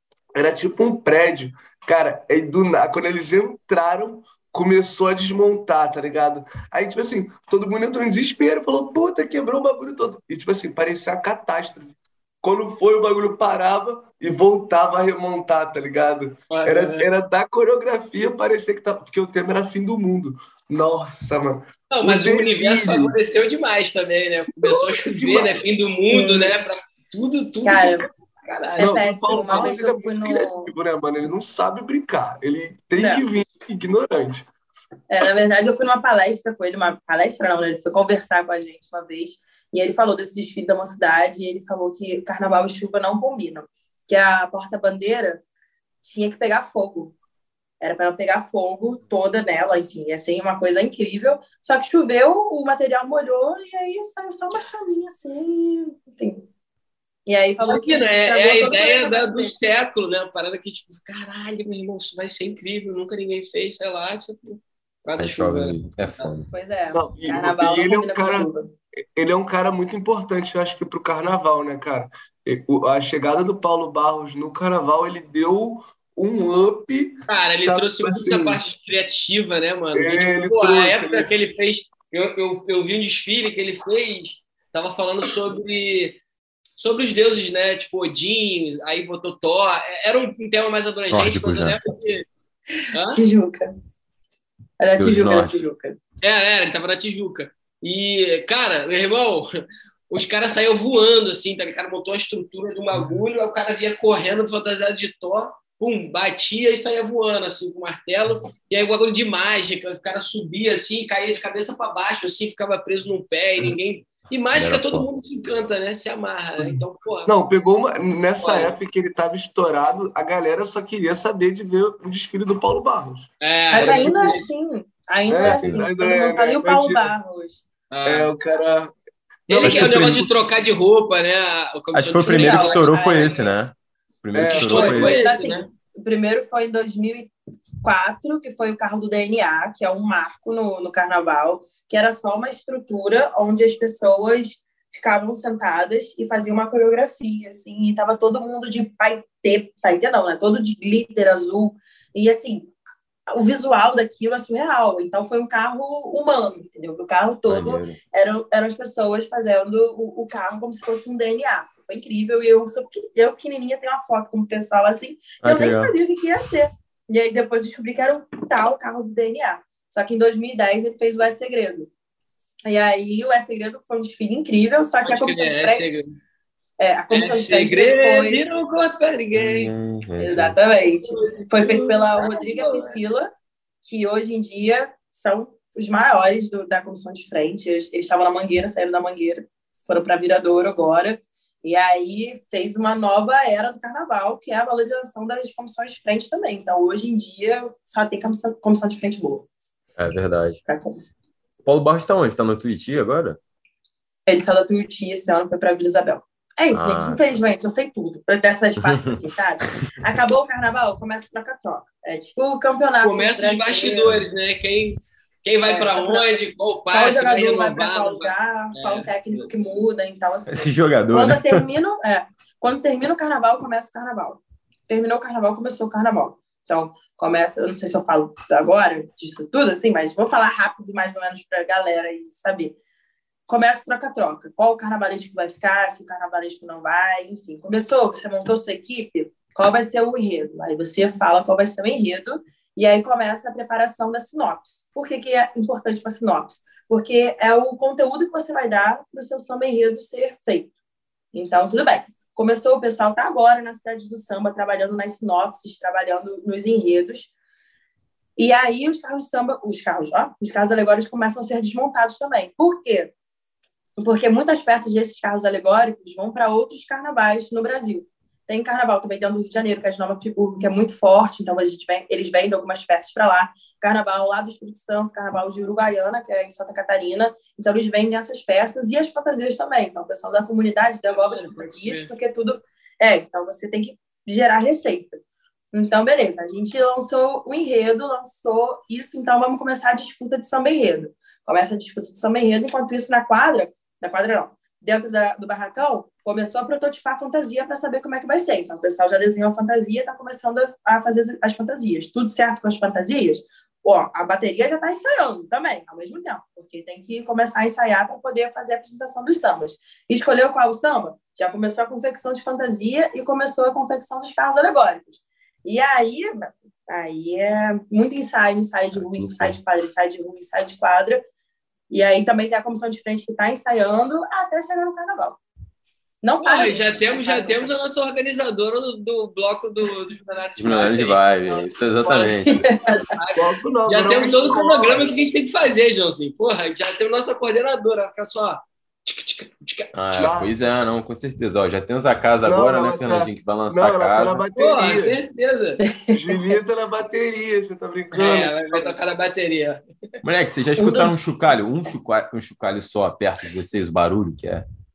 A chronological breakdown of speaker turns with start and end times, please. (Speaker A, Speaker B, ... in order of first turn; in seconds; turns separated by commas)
Speaker A: 0.4-23.2, Speaker B: 16.5-17.1, Speaker B: 21.9-28.9, Speaker A: 24.6-25.6, Speaker C: 26.1-26.6, Speaker C: 27.6-28.1, Speaker C: 28.8-30.7, Speaker A: 28.8-34.5, Speaker C: 33.0-33.2, Speaker C: 35.1-45.4, Speaker C: 46.0-47.1, Speaker C: 47.8-56.5, Speaker C: 57.3-59.6, Speaker B: 57.7-66.3, Speaker D: 65.2-66.5, Speaker C: 66.5-68.7, Speaker A: 66.9-78.6, Speaker B: 77.3-86.2, Speaker A: 79.9-81.3, Speaker B: 86.8-92.3, Speaker D: 91.1-92.0, Speaker B: 92.9-93.2, Speaker C: 93.1-93.7, Speaker C: 94.8-96.0, Speaker D: 95.0-95.6, Speaker B: 96.2-99.5, Speaker B: 100.1-117.3, Speaker D: 114.5-115.1, Speaker A: 116.6-124.2, Speaker B: 118.4-118.8, Speaker B: 123.4-124.5, Speaker C: 123.7-127.6, Speaker A: 125.3-127.1, Speaker D: 125.4-125.8, Speaker B: 127.9-128.3, Speaker A: 128.1-128.9, Speaker B: 129.5-133.3, Speaker A: 129.5-130.1, Speaker D: 129.6-130.3, Speaker D: 131.9-135.3, Speaker C: 132.2-133.6, Speaker A: 134.3-135.2, Speaker B: 134.5-135.7, Speaker C: 134.7-152.7, Speaker C: 153.3-171.9, Speaker D: 157.5-158.0, Speaker D: 165.4-166.0, Speaker C: 172.7-176.0, Speaker B: 175.1-176.2, Speaker C: 176.8-178.4, Speaker B: 177.1-179.7, Speaker D: 179.3-180.6, Speaker C: 180.2-183.3, Speaker B: 181.0-183.0, Speaker C: 183.8-199.5, Speaker D: 200.0-200.6, Speaker C: 200.7-201.0, Speaker D: 201.7-203.4, Speaker C: 204.3-214.1, Speaker D: 206.7-207.4, Speaker D: 208.8-210.0, Speaker B: 213.0-219.5, Speaker C: 215.6-216.4, Speaker C: 216.9-232.8, Speaker D: 220.5-221.6, Speaker C: 233.5-250.7, Speaker C: 251.3-257.3, Speaker C: 258.4-263.1, Speaker C: 264.0-321.2, Speaker B: 281.1-282.1, Speaker D: 318.9-319.6, Speaker C: 321.9-325.4, Speaker C: 326.2-327.7, Speaker B: 326.4-339.9, Speaker D: 330.6-332.7, Speaker C: 332.5-332.9, Speaker A: 333.4-335.2, Speaker D: 339.9-344.4, Speaker A: 340.1-340.5, Speaker A: 342.4-345.2, Speaker B: 344.6-345.8, Speaker C: 345.8-346.6, Speaker A: 346.1-349.0, Speaker B: 348.1-349.8, Speaker D: 350.2-354.6, Speaker C: 350.8-351.1